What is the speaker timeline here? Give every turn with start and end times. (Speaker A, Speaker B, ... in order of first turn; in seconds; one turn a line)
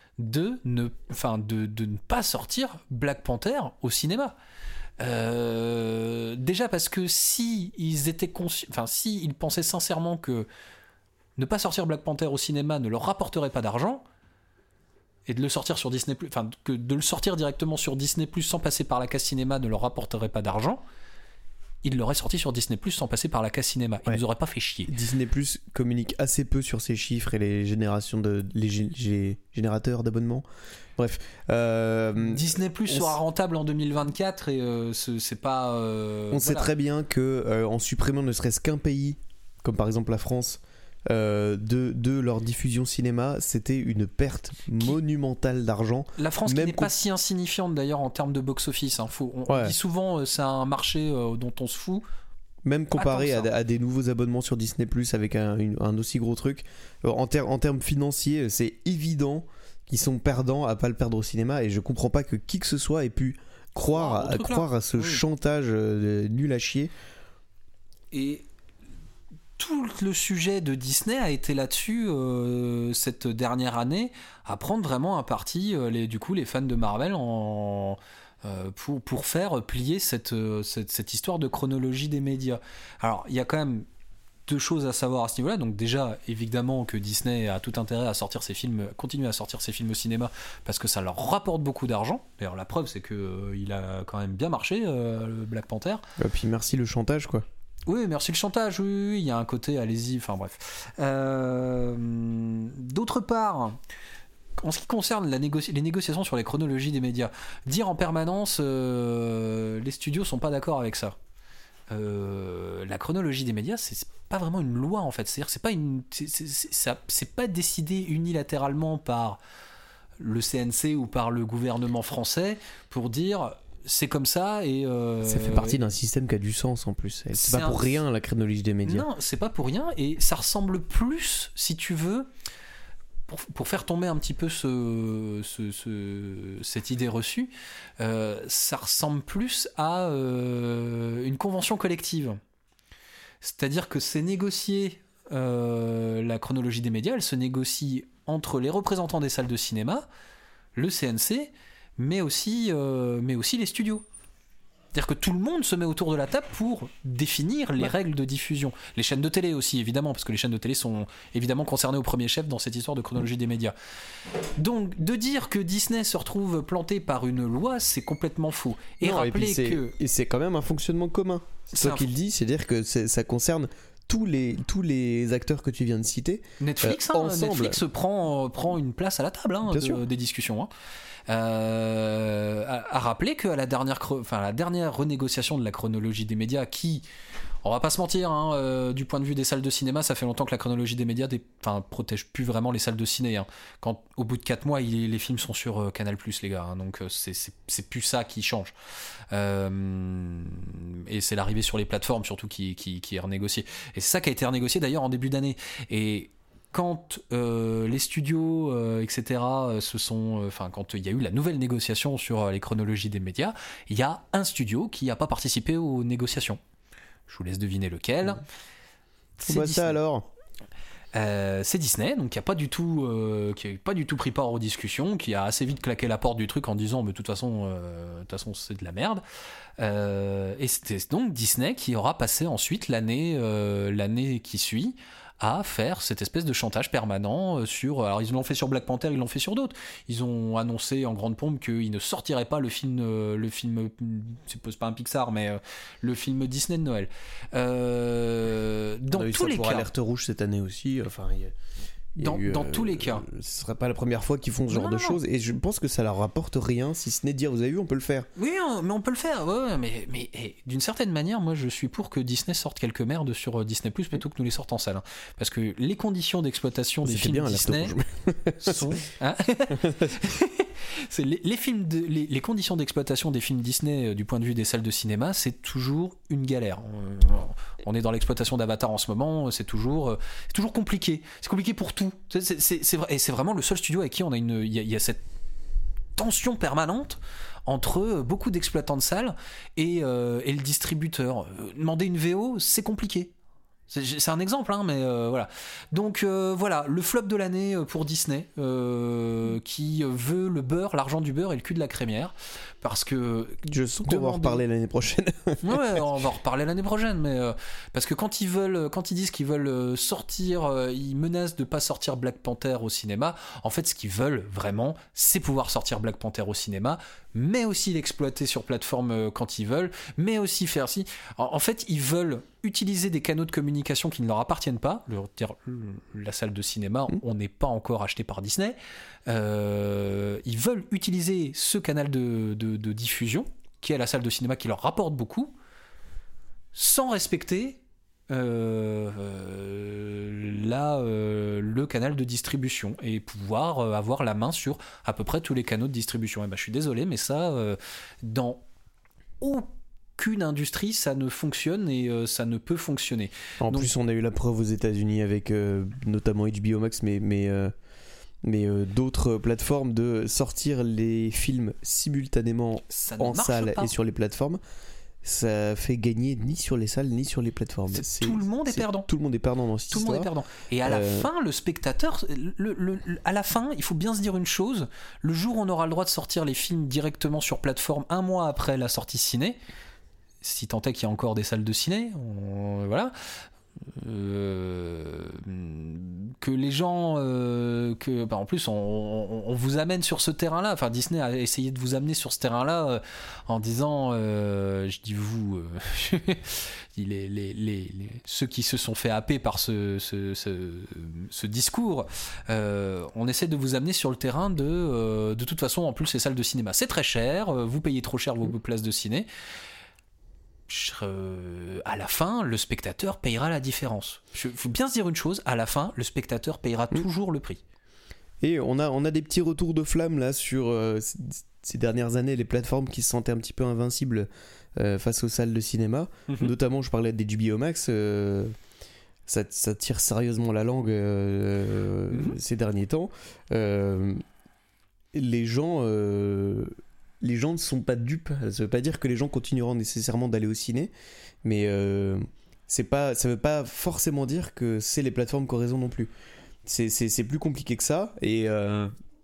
Speaker A: 0.2-4.4
Speaker A: 5.0-10.5
Speaker A: 11.4-14.0
Speaker A: 15.3-20.8
Speaker A: 21.8-24.9
Speaker B: 24.9-30.4
Speaker B: 31.0-33.2
Speaker A: 32.2-36.7
Speaker B: 36.3-46.9
Speaker A: 46.2-52.0
Speaker B: 49.5-49.8
Speaker B: 52.6-66.9
Speaker A: 52.9-53.5
Speaker A: 63.8-65.2
Speaker A: 68.1-68.5
Speaker A: 69.6-83.9
Speaker A: 84.5-96.0
Speaker B: 96.2-97.5
Speaker A: 97.9-103.8
Speaker A: 104.6-111.2
Speaker A: 111.9-119.4
Speaker A: 120.2-125.8
Speaker B: 125.2-129.1
Speaker A: 127.3-128.0
Speaker A: 128.8-132.3
Speaker A: 133.3-142.4
Speaker A: 143.4-150.1
Speaker A: 150.8-154.1
Speaker A: 154.9-163.7
Speaker A: 164.4-169.9
Speaker B: 169.0-177.8
Speaker A: 171.7-172.1
Speaker A: 176.6-180.7
Speaker B: 179.7-180.0
Speaker A: 181.3-187.1
Speaker A: 187.6-198.7
Speaker A: 199.3-216.6
Speaker A: 217.3-218.4
Speaker A: 219.4-220.0
Speaker B: 219.5-220.3
Speaker A: 221.1-229.2
Speaker A: 229.8-249.9
Speaker B: 249.1-251.6
Speaker B: 252.2-258.3
Speaker A: 252.2-253.2
Speaker A: 254.7-255.2
Speaker A: 258.4-267.9
Speaker B: 267.1-269.0
Speaker A: 268.6-285.2
Speaker B: 269.7-270.2
Speaker A: 286.2-293.3
Speaker A: 293.9-304.6
Speaker B: 303.7-306.0
Speaker A: 305.6-335.5
Speaker A: 336.8-348.6
Speaker A: 349.4-353.9
Speaker B: 353.6-357.7
Speaker B: 358.4-364.6
Speaker A: 362.9-363.9
Speaker B: 365.2-370.3
Speaker A: 367.9-369.1
Speaker A: 369.9-379.6
Speaker B: 370.8-371.3
Speaker A: 380.4-383.1
Speaker A: 383.9-409.3
Speaker A: 410.7-417.6
Speaker B: 418.4-428.5
Speaker B: 429.3-434.2
Speaker A: 432.1-432.4
Speaker B: 435.1-440.9
Speaker B: 441.4-446.1
Speaker B: 446.7-448.9